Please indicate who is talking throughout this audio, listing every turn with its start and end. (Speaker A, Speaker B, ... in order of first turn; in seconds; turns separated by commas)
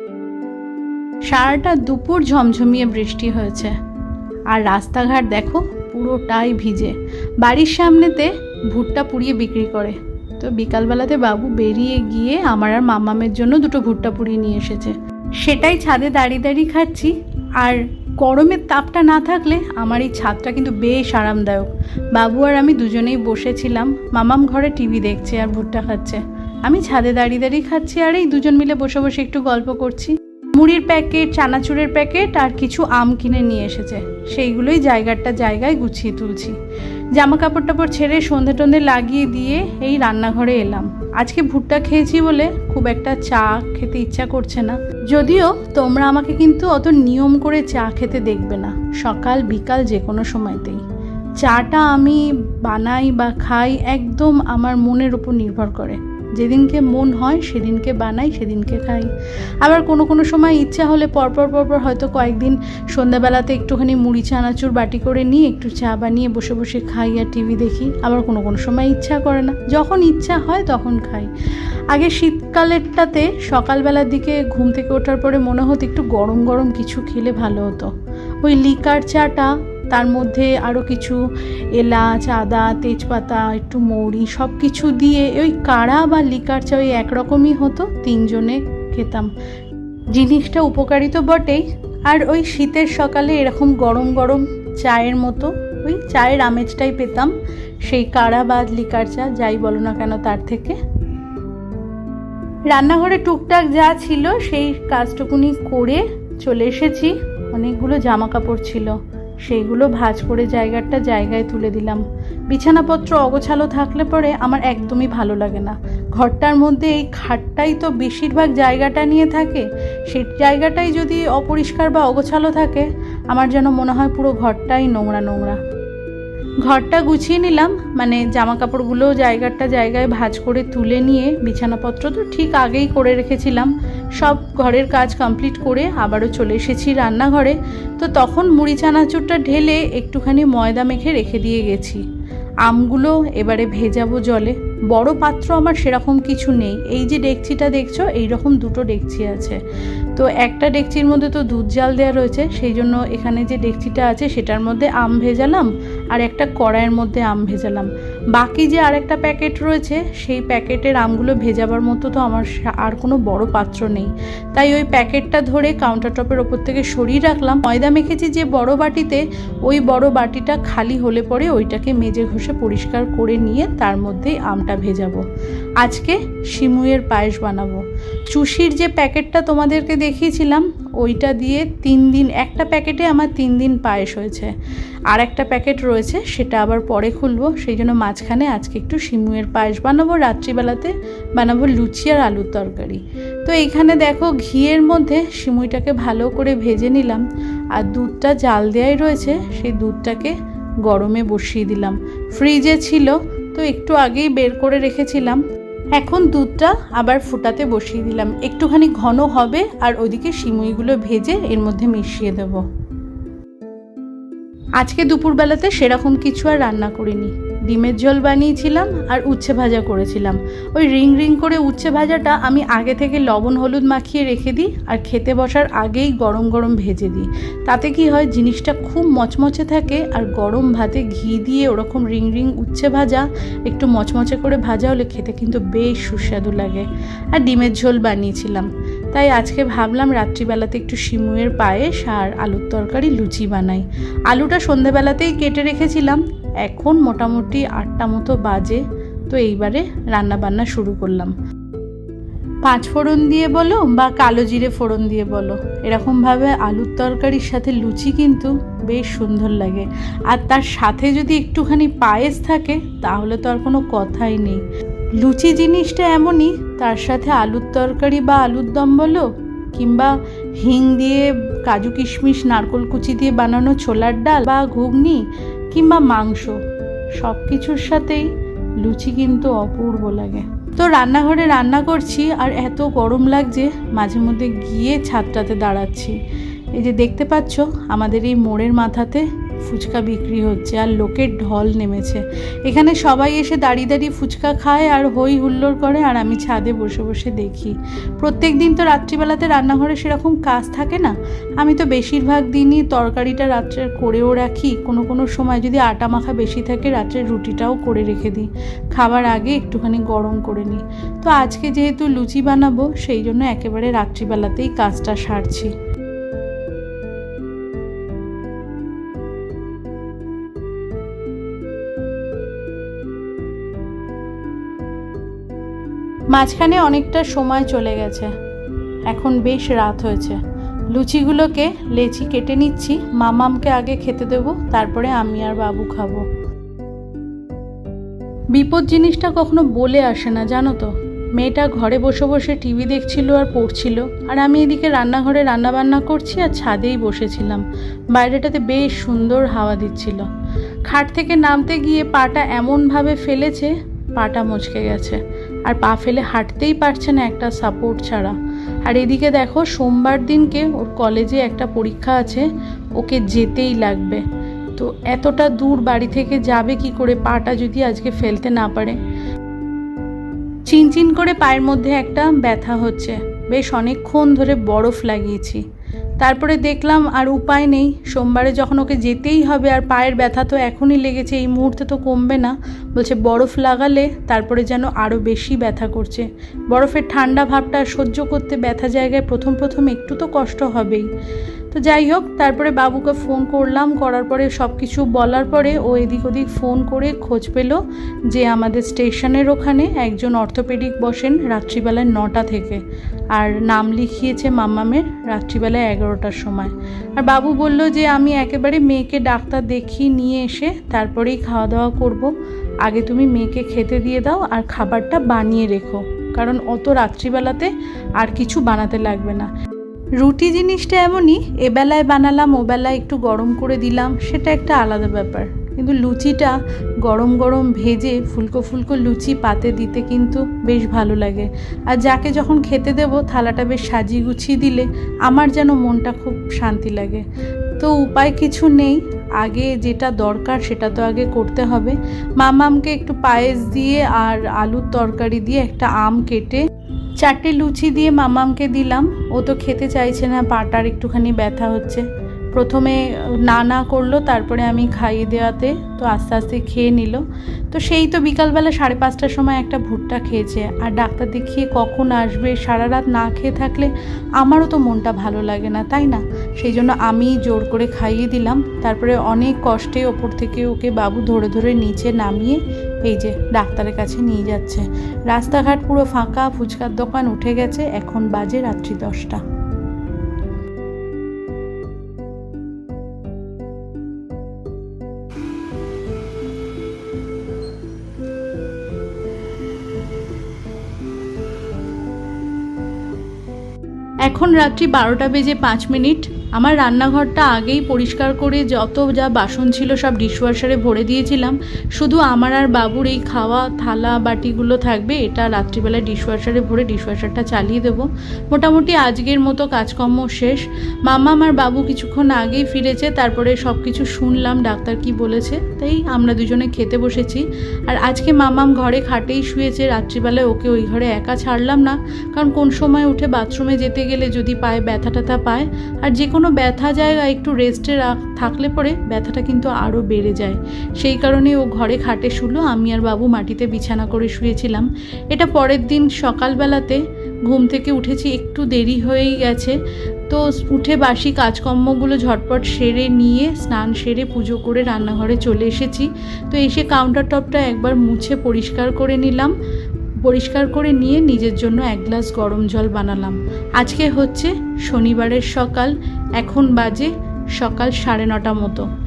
Speaker A: 1.3-3.7, Speaker A: 4.5-36.5, Speaker A: 37.1-50.8, Speaker A: 51.4-59.1, Speaker A: 59.6-71.3, Speaker A: 71.9-77.9, Speaker A: 78.4-81.2, Speaker A: 81.7-89.3, Speaker A: 90.1-100.8, Speaker A: 102.7-125.6, Speaker A: 126.6-142.0, Speaker A: 142.6-149.6, Speaker A: 150.1-175.2, Speaker A: 175.8-184.5, Speaker A: 185.1-205.4, Speaker A: 205.9-212.6, Speaker A: 214.8-251.3, Speaker A: 252.6-264.6, Speaker A: 265.2-276.6, Speaker A: 277.1-286.2, Speaker A: 286.7-315.7, Speaker A: 326.3-328.3, Speaker A: 329.1-330.4, Speaker A: 330.9-336.2, Speaker A: 338.5-350.3, Speaker A: 350.8-364.2, Speaker A: 364.8-369.0, Speaker A: 370.7-375.6, Speaker A: 376.2-391.1, Speaker A: 391.7-419.5, Speaker A: 420.2-437.2, Speaker A: 437.8-446.6, Speaker A: 447.2-479.4, Speaker A: 494.2-539.8, Speaker A: 540.3-549.5, Speaker A: 550.2-558.9